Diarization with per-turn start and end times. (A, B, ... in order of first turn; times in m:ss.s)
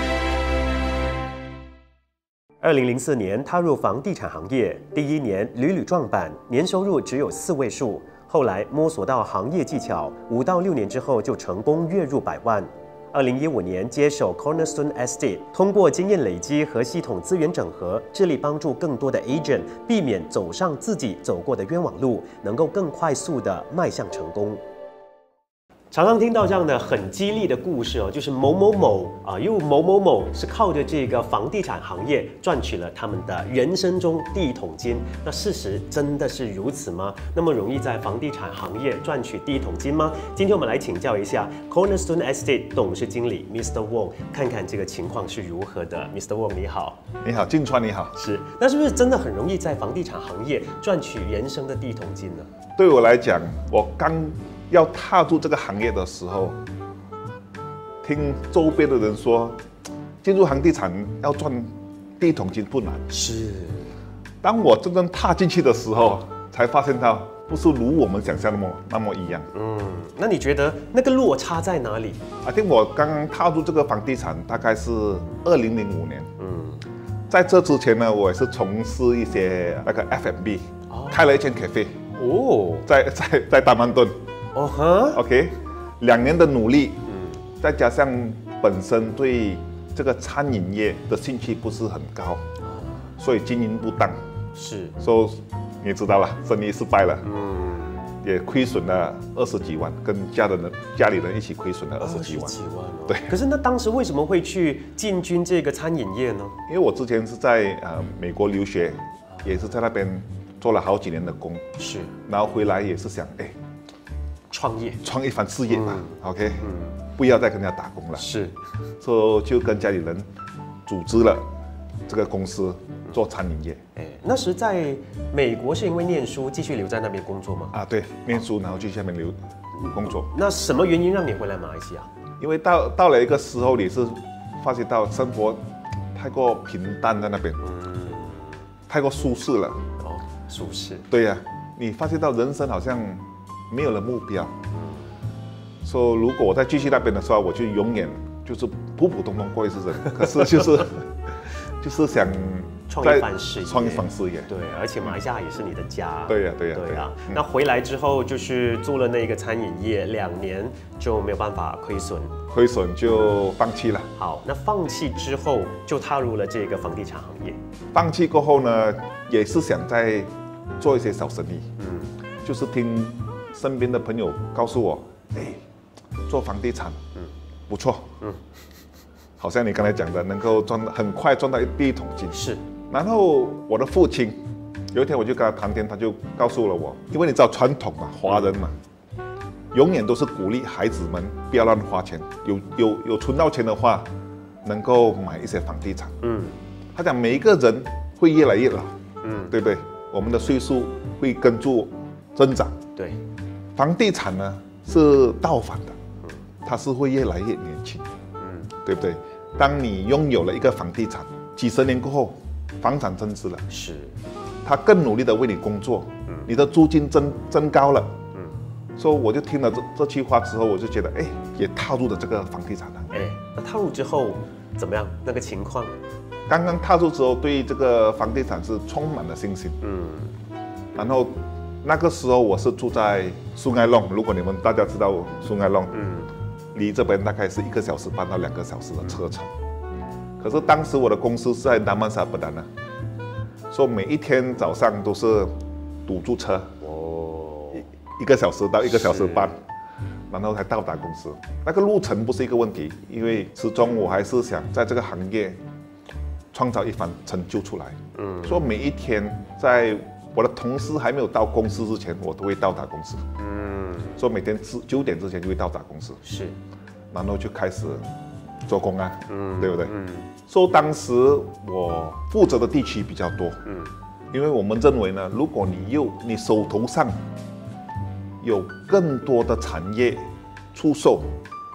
0:02.6-0:24.6 A
0:25.9-0:47.0 A
0:47.2-0:48.1 B
0:48.1-0:52.5 A
0:52.8-0:56.6 B
0:58.0-0:59.6 B
1:00.2-1:03.1 B
1:03.1-1:03.9 A
1:04.4-1:09.5 B
1:09.5-1:12.2 A
1:12.4-1:16.3 B
1:16.4-1:16.8 A
1:17.3-1:22.1 B
1:20.9-1:21.3 A
1:22.2-1:22.9 A
1:22.8-1:24.2 B
1:24.5-1:25.2 A
1:25.1-1:27.0 B
1:27.1-1:27.4 A
1:27.6-1:32.4 B
1:32.6-1:33.1 A
1:33.2-1:34.2 B
1:34.5-1:35.0 A
1:35.0-1:37.2 B
1:37.2-1:38.0 A
1:38.2-1:42.6 B
1:42.0-1:46.6 A
1:43.1-1:43.4 B
1:46.7-1:51.7 B
1:51.8-1:52.1 A
1:52.2-1:53.6 B
1:54.5-1:55.0 A
1:55.0-1:58.3 B
1:55.7-1:57.0 A
1:58.2-1:58.6 A
1:59.0-2:00.3 B
2:00.8-2:01.5 B
2:02.1-2:03.8 B
2:04.0-2:07.7 A
2:07.7-2:10.3 B
2:09.8-2:12.1 A
2:12.4-2:17.6 B
2:17.6-2:18.6 A
2:18.9-2:19.8 B
2:20.0-2:21.1 A
2:21.1-2:24.5 B
2:24.7-2:25.0 A
2:25.8-2:34.5 B
2:32.9-2:42.4 A
2:36.3-2:37.4 B
2:42.5-2:44.1 B
2:44.2-2:47.6 A
2:47.9-2:51.7 B
2:51.8-2:52.1 A
2:52.4-2:55.6 B
2:56.3-2:57.0 B
2:57.7-2:58.2 B
2:59.4-3:08.8 B
3:02.3-3:02.6 A
3:08.3-3:08.6 A
3:09.7-3:14.1 B
3:14.6-3:16.2 B
3:16.2-3:16.6 A
3:16.9-3:19.0 B
3:19.2-3:19.6 A
3:19.5-3:22.8 B
3:23.0-3:23.2 A
3:23.8-3:26.0 B
3:26.6-3:28.1 B
3:28.4-3:28.7 A
3:28.8-3:33.6 B
3:33.7-3:34.2 A
3:34.6-3:38.1 B
3:39.0-3:43.2 B
3:43.1-3:46.0 A
3:46.5-3:49.8 B
3:49.8-3:50.3 A
3:50.9-3:56.0 B
3:55.9-3:56.3 A
3:56.7-3:59.5 B
4:00.4-4:02.7 B
4:03.7-4:06.8 B
4:06.8-4:07.9 A
4:07.7-4:09.6 B
4:08.8-4:09.6 A
4:10.3-4:15.6 B
4:16.5-4:23.2 B
4:18.1-4:18.7 A
4:23.4-4:24.2 A
4:24.2-4:26.2 B
4:26.2-4:26.6 A
4:27.1-4:28.0 B
4:28.6-4:29.9 B
4:29.3-4:30.3 A
4:30.4-4:33.6 B
4:33.6-4:33.9 A
4:34.3-4:37.2 B
4:38.4-4:41.4 B